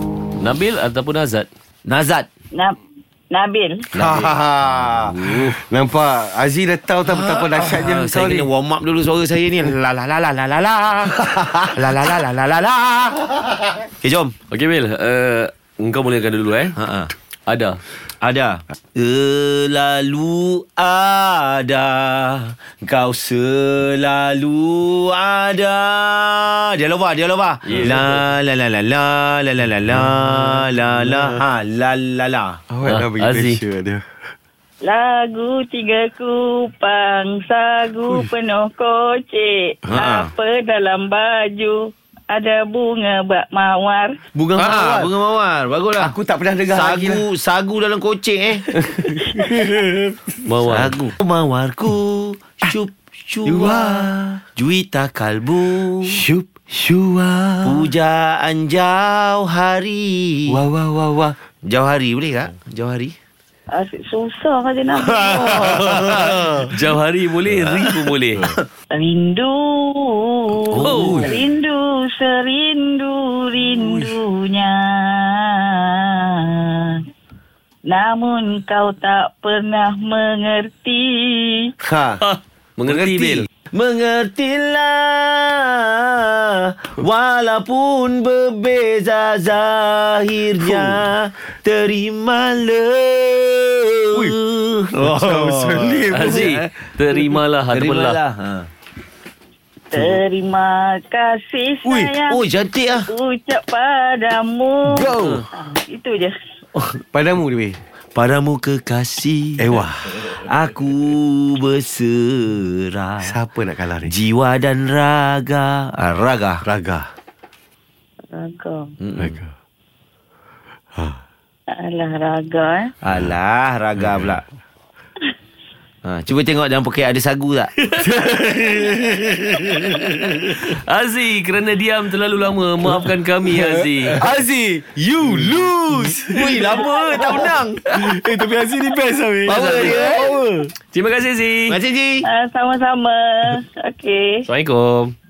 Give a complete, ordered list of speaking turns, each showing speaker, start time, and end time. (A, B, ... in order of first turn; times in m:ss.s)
0:00.4-0:01.5 A
0:01.8-0:02.3 B
0:03.3-0:03.9 C
0:03.9-0:04.3 A
0:04.0-0:04.4 D
0:04.0-0:05.1 B
0:04.8-0:05.6 A
0:05.3-0:08.5 D
0:07.0-0:13.3 B
0:13.9-0:14.3 B
0:14.5-0:16.7 A
0:16.8-0:17.1 B
0:17.5-0:17.8 A
0:18.2-0:32.6 B
0:27.6-0:28.3 A
0:30.4-0:31.3 D
0:32.7-0:34.0 D
0:32.8-0:33.6 A
0:34.8-0:44.2 C
0:39.9-0:40.3 B
0:44.3-0:46.1 B
0:44.6-0:45.1 D
0:46.0-0:47.2 D
0:46.7-0:48.7 B
0:48.7-0:50.2 D
0:49.1-0:49.6 C
0:50.4-0:51.0 A
0:50.6-0:56.2 B
0:53.4-0:54.4 D
0:56.1-0:57.9 D
0:57.6-1:00.6 B
1:00.5-1:01.4 D
1:01.6-1:03.1 B
1:03.7-1:05.9 C
1:05.4-1:06.7 D
1:05.4-1:06.6 B
1:06.7-1:08.5 A
1:08.0-1:08.6 B
1:08.9-1:17.0 C
1:10.7-1:11.3 B
1:10.8-1:11.3 A
1:11.0-1:11.3 D
1:13.8-1:14.1 D
1:17.9-1:21.7 C
1:21.8-1:22.2 B
1:22.2-1:23.5 A
1:22.9-1:23.4 D
1:23.6-1:38.7 B
1:30.6-1:31.0 D
1:34.9-1:36.5 D
1:36.1-1:38.2 A
1:39.9-1:42.4 C
1:41.8-1:42.1 D
1:42.3-1:43.1 B
1:43.1-1:46.4 C
1:44.8-1:45.4 D
1:45.2-1:45.4 A
1:46.8-1:47.8 D
1:48.1-1:53.3 B
1:49.6-1:50.3 D
1:53.2-1:54.1 D
1:54.0-1:56.6 B
1:56.6-1:57.1 D
1:58.3-1:58.9 C
1:59.0-1:59.4 B
1:59.2-1:59.5 D
2:01.7-2:02.9 C
2:03.0-2:04.4 B
2:06.0-2:07.7 B
2:07.8-2:08.1 A
2:08.0-2:10.6 D
2:09.6-2:14.2 A
2:13.5-2:20.7 D
2:15.3-2:18.1 B
2:19.4-2:20.4 B
2:19.5-2:20.2 A
2:20.9-2:21.8 A
2:21.7-2:22.2 B
2:22.2-2:24.5 C
2:24.4-2:25.1 A